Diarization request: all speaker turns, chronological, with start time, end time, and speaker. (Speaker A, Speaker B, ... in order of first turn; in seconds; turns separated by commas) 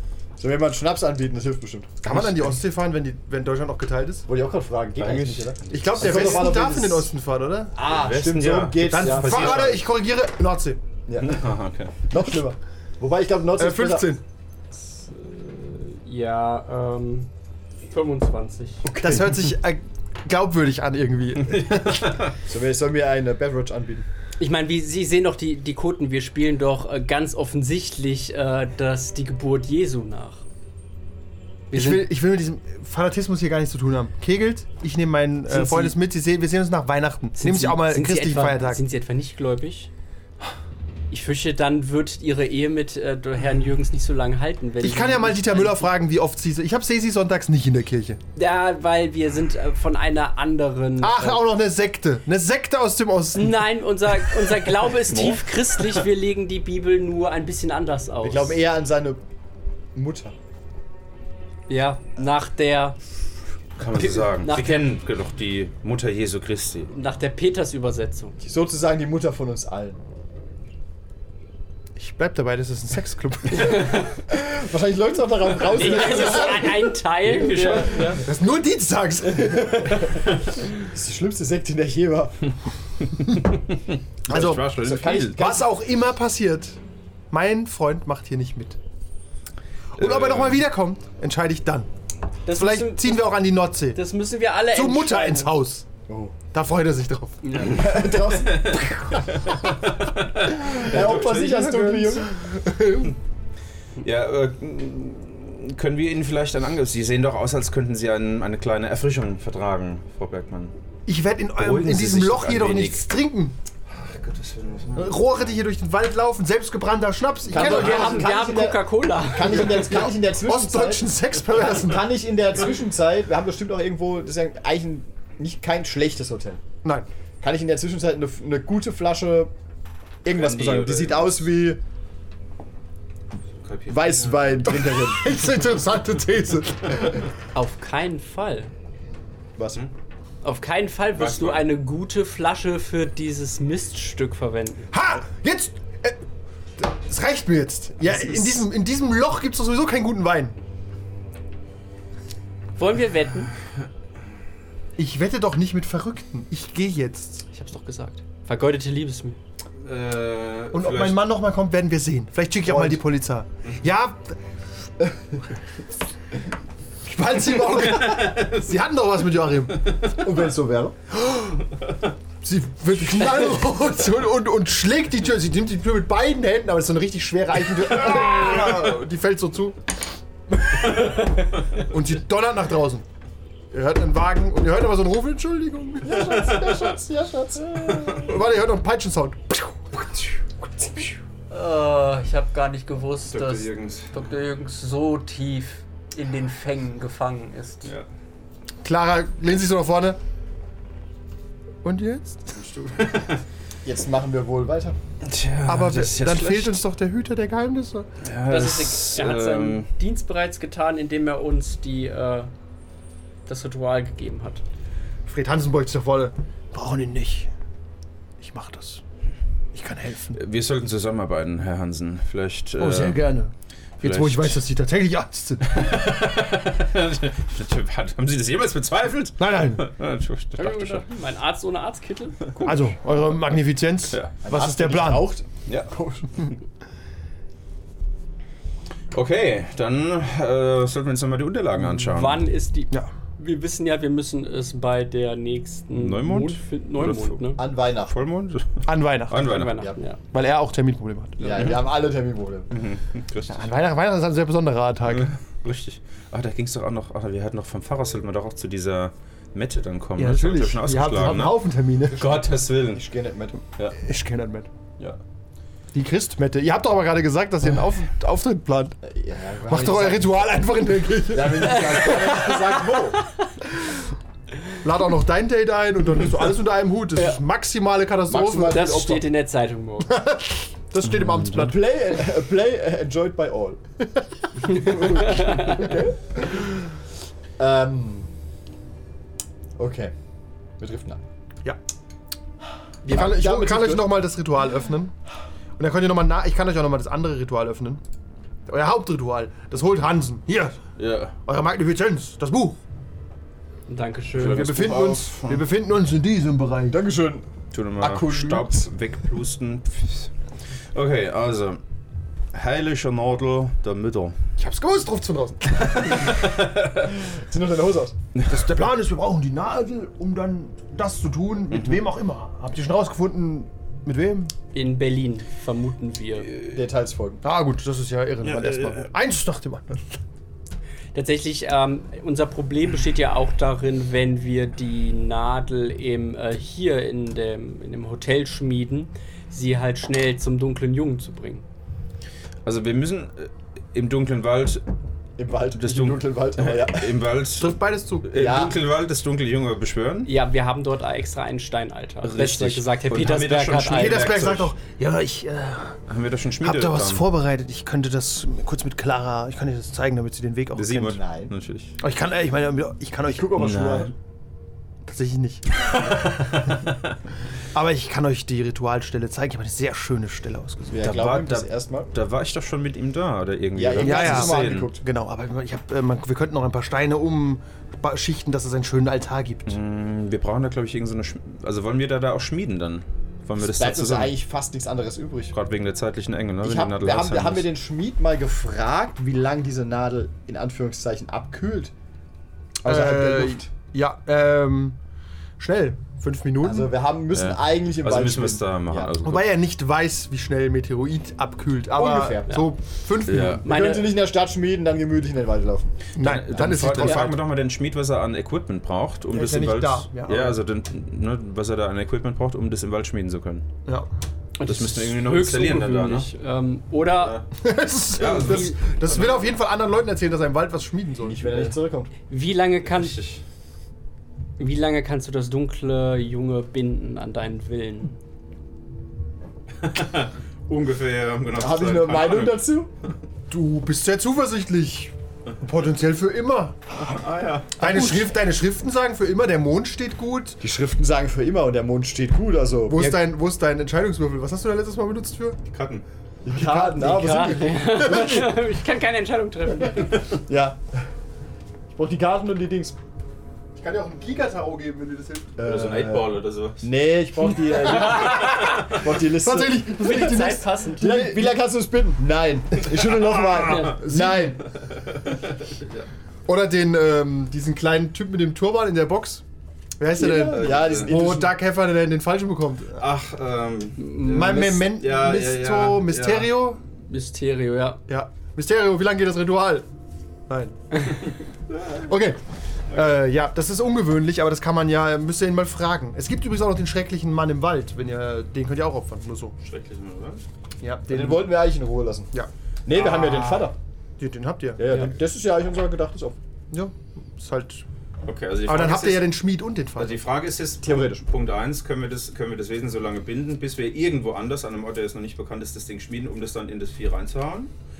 Speaker A: 0.4-2.5, Speaker B: 2.0-4.2, Speaker A: 4.2-7.1, Speaker C: 5.0-6.5, Speaker B: 5.7-7.7, Speaker A: 7.7-9.8, Speaker C: 7.8-9.8, Speaker B: 8.8-10.8, Speaker A: 11.1-11.5, Speaker C: 11.2-12.0, Speaker A: 12.0-14.1, Speaker B: 13.6-14.2, Speaker D: 14.7-17.3, Speaker D: 17.9-18.9, Speaker B: 18.9-22.2, Speaker A: 18.9-19.3, Speaker C: 21.6-22.2, Speaker A: 22.4-24.1, Speaker D: 24.4-30.4, Speaker D: 31.7-32.0, Speaker B: 31.7-38.8, Speaker D: 35.5-36.0, Speaker D: 37.4-39.9, Speaker D: 41.1-45.9, Speaker B: 44.8-48.2, Speaker D: 48.4-51.4, Speaker B: 51.0-53.7, Speaker D: 53.3-58.6, Speaker C: 55.1-55.9, Speaker A: 58.2-59.2, Speaker A: 59.9-60.3, Speaker D: 61.7-63.0, Speaker C: 63.8-66.9, Speaker D: 64.0-64.9, Speaker D: 66.9-68.4, Speaker A: 68.4-70.0, Speaker B: 72.0-74.0, Speaker D: 73.6-74.0, Speaker A: 74.1-78.2, Speaker D: 75.6-78.2, Speaker B: 78.2-80.2, Speaker A: 79.3-82.5, Speaker C: 84.2-85.4, Speaker B: 84.3-84.7, Speaker A: 84.7-85.7, Speaker B: 85.3-86.8, Speaker B: 87.3-88.8, Speaker B: 90.0-91.9, Speaker C: 90.0-90.6, Speaker D: 92.5-93.3, Speaker B: 92.5-94.0, Speaker D: 93.9-95.5, Speaker B: 94.7-95.9, Speaker A: 96.1-96.4, Speaker B: 96.5-97.6, Speaker D: 97.4-97.9, Speaker A: 97.6-98.9, Speaker C: 97.9-102.0, Speaker A: 100.8-102.4, Speaker B: 101.0-103.1, Speaker C: 104.0-110.7, Speaker B: 111.1-113.5, Speaker C: 111.6-113.0, Speaker C: 113.9-115.6, Speaker B: 115.0-118.3, Speaker A: 117.5-126.6, Speaker D: 117.5-120.1, Speaker B: 119.7-122.1, Speaker A: 127.4-129.5, Speaker A: 130.2-131.8, Speaker C: 130.3-131.4, Speaker C: 133.6-134.6, Speaker A: 133.9-135.3, Speaker B: 134.8-137.3, Speaker D: 137.5-138.7, Speaker A: 139.6-139.8, Speaker D: 140.4-144.9, Speaker C: 141.1-141.7, Speaker B: 144.9-146.2, Speaker B: 146.8-150.6, Speaker D: 152.8-153.5, Speaker B: 155.0-157.4, Speaker D: 157.5-159.4, Speaker C: 159.8-161.2, Speaker B: 160.7-164.3, Speaker A: 162.7-163.0, Speaker B: 167.0-170.0, Speaker C: 168.0-168.3, Speaker A: 170.1-170.9, Speaker B: 171.2-171.6, Speaker B: 172.4-179.8, Speaker B: 181.7-183.0, Speaker B: 183.7-186.5, Speaker A: 186.0-188.3, Speaker C: 187.9-188.2, Speaker B: 188.0-189.8, Speaker D: 191.5-197.9, Speaker C: 193.3-194.1, Speaker B: 198.8-200.2, Speaker B: 201.8-202.5, Speaker C: 202.5-203.4, Speaker A: 203.8-205.0, Speaker C: 205.2-206.8, Speaker B: 205.7-208.1, Speaker C: 208.2-209.9, Speaker D: 208.4-212.5, Speaker D: 213.4-214.6, Speaker B: 215.2-217.5, Speaker B: 218.4-219.0, Speaker B: 219.7-220.4, Speaker C: 220.3-223.3, Speaker B: 222.8-225.9, Speaker C: 224.0-224.6, Speaker C: 225.7-231.0, Speaker B: 229.4-229.8, Speaker D: 230.6-232.7, Speaker B: 232.6-235.3, Speaker A: 234.4-236.5, Speaker C: 239.1-242.4, Speaker D: 242.0-247.6, Speaker C: 245.9-249.8, Speaker A: 247.6-248.2, Speaker B: 248.8-249.5, Speaker D: 249.3-250.2, Speaker A: 249.6-250.0, Speaker B: 250.3-251.7, Speaker A: 251.4-252.7, Speaker C: 252.7-253.7, Speaker B: 253.5-255.3, Speaker C: 255.0-261.6, Speaker B: 260.2-262.3, Speaker C: 262.1-263.0, Speaker A: 262.3-263.6, Speaker B: 264.0-264.7, Speaker B: 265.9-269.0, Speaker A: 269.0-270.4, Speaker B: 269.6-272.7, Speaker A: 271.3-273.2, Speaker B: 274.8-279.2, Speaker D: 277.1-277.4, Speaker A: 278.3-279.2, Speaker D: 278.6-280.1, Speaker B: 280.1-281.8, Speaker C: 281.0-281.7, Speaker A: 281.5-283.8, Speaker A: 284.6-286.3, Speaker D: 284.8-285.8, Speaker A: 287.6-288.3, Speaker A: 289.8-290.1, Speaker A: 290.8-291.2, Speaker A: 293.0-294.1, Speaker B: 293.0-295.1, Speaker B: 295.8-298.0, Speaker B: 298.7-300.8, Speaker C: 301.0-301.3, Speaker B: 301.4-302.8, Speaker D: 303.9-304.8, Speaker C: 304.4-305.6, Speaker B: 304.4-307.0, Speaker A: 306.9-307.4, Speaker C: 307.7-310.3, Speaker A: 308.0-308.9, Speaker C: 310.9-311.8, Speaker C: 312.5-314.4, Speaker B: 314.6-316.3, Speaker C: 315.8-316.8, Speaker A: 317.2-318.1, Speaker B: 318.4-324.5, Speaker C: 321.7-322.0, Speaker D: 324.7-326.5, Speaker A: 326.6-327.4, Speaker B: 327.4-330.0, Speaker C: 328.4-329.1, Speaker D: 331.1-341.6, Speaker C: 342.6-344.8, Speaker A: 345.4-347.2, Speaker C: 345.7-350.3, Speaker B: 347.6-348.3, Speaker A: 348.3-348.8, Speaker D: 350.2-354.3, Speaker C: 352.2-354.7, Speaker B: 353.8-356.0, Speaker C: 356.1-357.2, Speaker B: 356.6-361.1, Speaker C: 360.7-362.0, Speaker A: 361.0-361.5, Speaker B: 362.0-363.7, Speaker A: 363.3-364.1, Speaker C: 363.6-364.1, Speaker B: 365.1-366.7, Speaker B: 367.7-371.0, Speaker A: 370.9-372.1, Speaker C: 371.0-374.9, Speaker A: 373.7-375.0, Speaker B: 374.0-379.8, Speaker C: 379.6-384.3, Speaker A: 383.6-385.5, Speaker C: 385.5-387.6, Speaker A: 386.6-391.9, Speaker A: 392.8-393.7, Speaker B: 392.9-395.0, Speaker B: 395.6-396.9, Speaker A: 396.6-399.1, Speaker C: 397.3-399.5, Speaker B: 399.2-403.7, Speaker A: 401.9-402.6, Speaker C: 403.2-403.6, Speaker A: 403.6-406.0, Speaker D: 403.6-404.1, Speaker B: 406.2-407.4, Speaker C: 406.2-413.7, Speaker B: 409.3-410.6, Speaker D: 414.6-417.4, Speaker C: 414.6-416.3, Speaker C: 417.2-417.4, Speaker B: 417.6-421.6, Speaker C: 418.1-419.6, Speaker D: 418.3-418.8, Speaker A: 421.2-422.1, Speaker D: 422.3-423.2, Speaker C: 422.8-423.4, Speaker D: 424.6-428.1, Speaker C: 429.8-432.6, Speaker A: 431.5-432.9, Speaker B: 433.5-436.8, Speaker C: 437.0-438.1, Speaker B: 437.8-440.6, Speaker A: 440.6-443.2, Speaker B: 442.9-445.6, Speaker C: 445.7-446.0, Speaker A: 446.4-448.5, Speaker B: 446.5-448.6, Speaker D: 447.0-450.2, Speaker A: 450.4-450.8, Speaker A: 451.9-453.0, Speaker B: 453.8-455.6, Speaker A: 455.6-460.1, Speaker C: 455.6-456.9, Speaker B: 458.7-461.4, Speaker D: 459.9-461.3, Speaker A: 461.0-464.6, Speaker D: 463.6-463.9, Speaker B: 463.7-464.6, Speaker C: 465.0-466.1, Speaker B: 466.4-469.4, Speaker B: 470.0-473.0, Speaker A: 470.1-471.5, Speaker C: 470.4-471.1, Speaker C: 473.0-476.5, Speaker D: 474.0-474.8, Speaker B: 474.2-476.8, Speaker D: 477.1-478.0, Speaker B: 478.1-479.8, Speaker B: 480.5-481.0, Speaker B: 481.9-482.4, Speaker B: 482.9-489.5, Speaker C: 489.6-490.4, Speaker B: 490.8-491.6, Speaker A: 491.1-492.3, Speaker A: 492.9-493.8, Speaker C: 492.9-493.7, Speaker B: 494.2-495.0, Speaker A: 494.8-496.4, Speaker B: 496.7-497.8, Speaker C: 498.2-499.4, Speaker B: 498.7-500.2, Speaker C: 499.9-507.7, Speaker A: 500.8-501.2